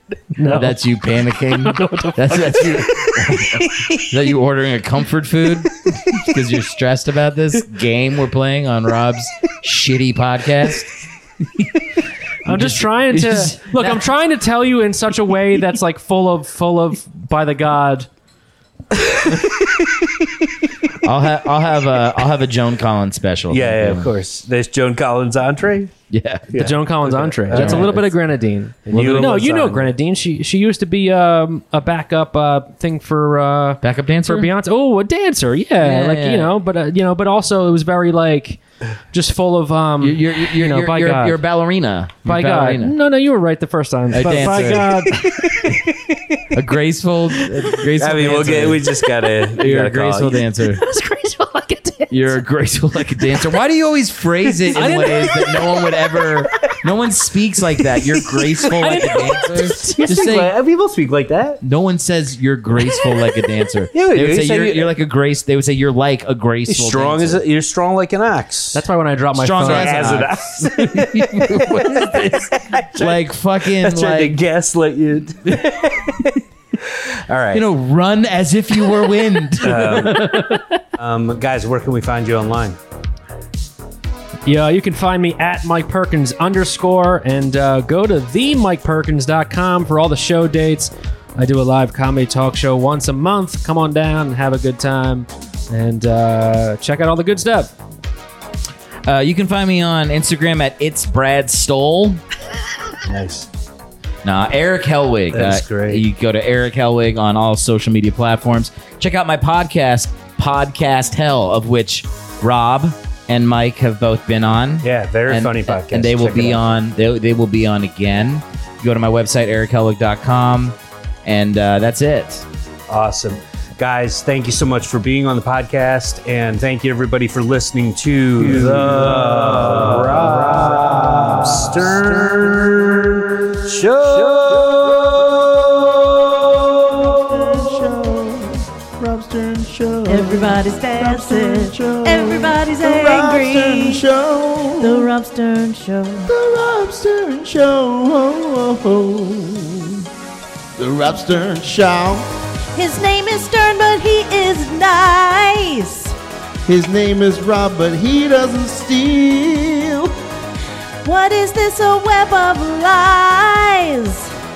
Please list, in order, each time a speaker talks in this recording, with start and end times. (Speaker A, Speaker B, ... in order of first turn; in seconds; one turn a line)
Speaker A: 0.3-0.8
Speaker B: 0.4-10.9
Speaker A: 1.5-3.2
Speaker B: 12.4-14.0
Speaker A: 12.4-18.1
Speaker C: 18.9-20.1
Speaker B: 21.0-24.1
Speaker C: 23.5-25.9
Speaker B: 26.1-26.8
Speaker C: 26.5-28.1
Speaker A: 26.6-38.6
Speaker B: 27.5-28.0
Speaker C: 28.9-29.9
Speaker B: 28.9-29.4
Speaker B: 33.8-34.5
Speaker B: 35.8-36.5
Speaker A: 39.1-41.4
Speaker B: 40.0-42.9
Speaker A: 42.2-46.1
Speaker B: 44.1-45.2
Speaker B: 46.5-48.9
Speaker C: 48.0-50.4
Speaker B: 49.6-50.8
Speaker A: 50.6-52.4
Speaker B: 52.1-60.5
Speaker A: 54.7-56.2
Speaker A: 58.3-60.1
Speaker C: 59.9-61.6
Speaker B: 61.6-67.4
Speaker C: 63.9-64.9
Speaker C: 66.7-68.8
Speaker A: 68.7-70.3
Speaker B: 69.4-74.4
Speaker C: 69.6-77.7
Speaker B: 77.5-80.6
Speaker C: 79.6-80.4
Speaker A: 79.8-80.6
Speaker C: 81.0-82.8
Speaker A: 84.5-97.7
Speaker B: 99.1-102.2
Speaker C: 103.0-103.5
Speaker B: 104.2-122.5
Speaker C: 105.3-106.0
Speaker C: 114.8-116.6
Speaker C: 122.9-135.5
Speaker D: 131.1-131.4
Speaker D: 134.2-145.1
Speaker C: 137.3-137.6
Speaker E: 140.1-144.1
Speaker E: 144.8-146.3
Speaker D: 146.3-150.1
Speaker D: 150.8-152.3
Speaker E: 152.8-156.2
Speaker D: 156.7-160.1
Speaker E: 161.0-164.3